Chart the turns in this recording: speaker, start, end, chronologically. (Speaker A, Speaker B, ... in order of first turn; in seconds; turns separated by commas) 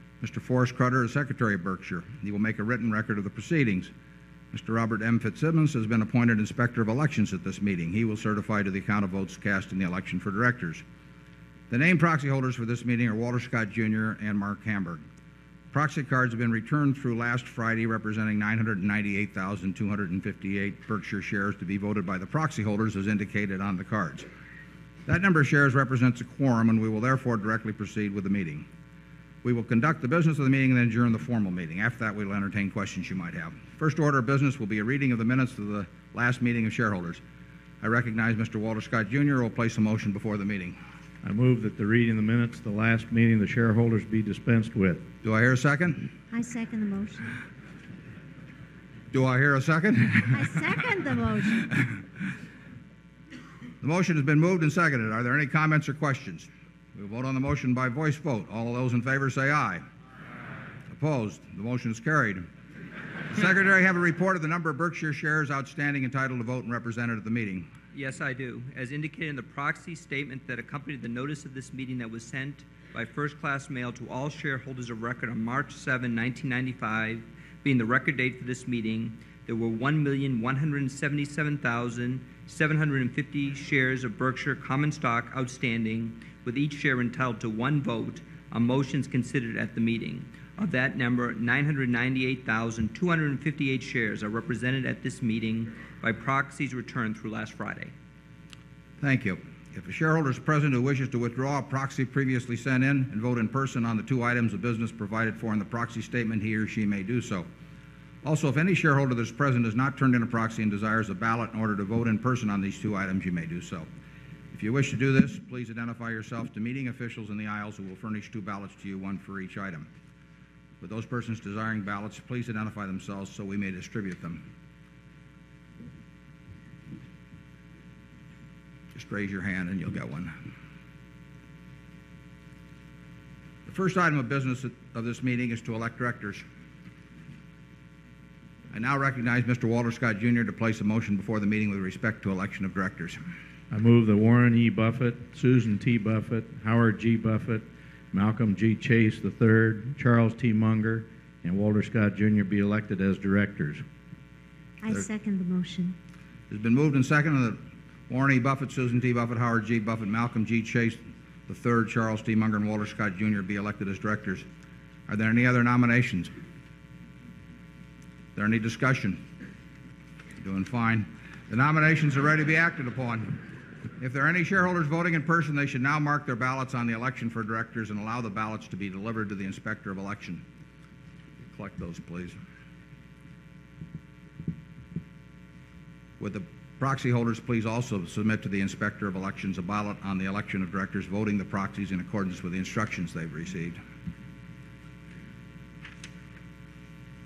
Speaker A: 0.2-3.9, Speaker A: 4.5-10.8, Speaker A: 11.7-15.0, Speaker A: 15.7-24.3, Speaker A: 25.1-28.7, Speaker A: 29.4-37.2, Speaker A: 37.8-40.8, Speaker B: 41.2-45.0, Speaker A: 45.2-46.0, Speaker C: 46.3-47.3, Speaker A: 49.1-50.7, Speaker C: 50.3-51.7, Speaker A: 53.8-59.8, Speaker A: 60.9-62.5, Speaker A: 63.3-67.7, Speaker D: 67.9-97.9, Speaker A: 99.0-107.5, Speaker A: 108.2-113.9, Speaker A: 114.5-119.9, Speaker A: 120.8-124.5, Speaker A: 128.9-130.3, Speaker A: 133.7-136.4, Speaker A: 138.7-143.2, Speaker B: 143.7-153.8, Speaker C: 154.8-155.9, Speaker A: 156.5-164.5, Speaker A: 165.1-166.3, Speaker A: 168.4-169.2, Speaker A: 170.4-173.4, Speaker A: 174.0-180.4, Speaker A: 181.4-182.4, Speaker A: 186.2-193.8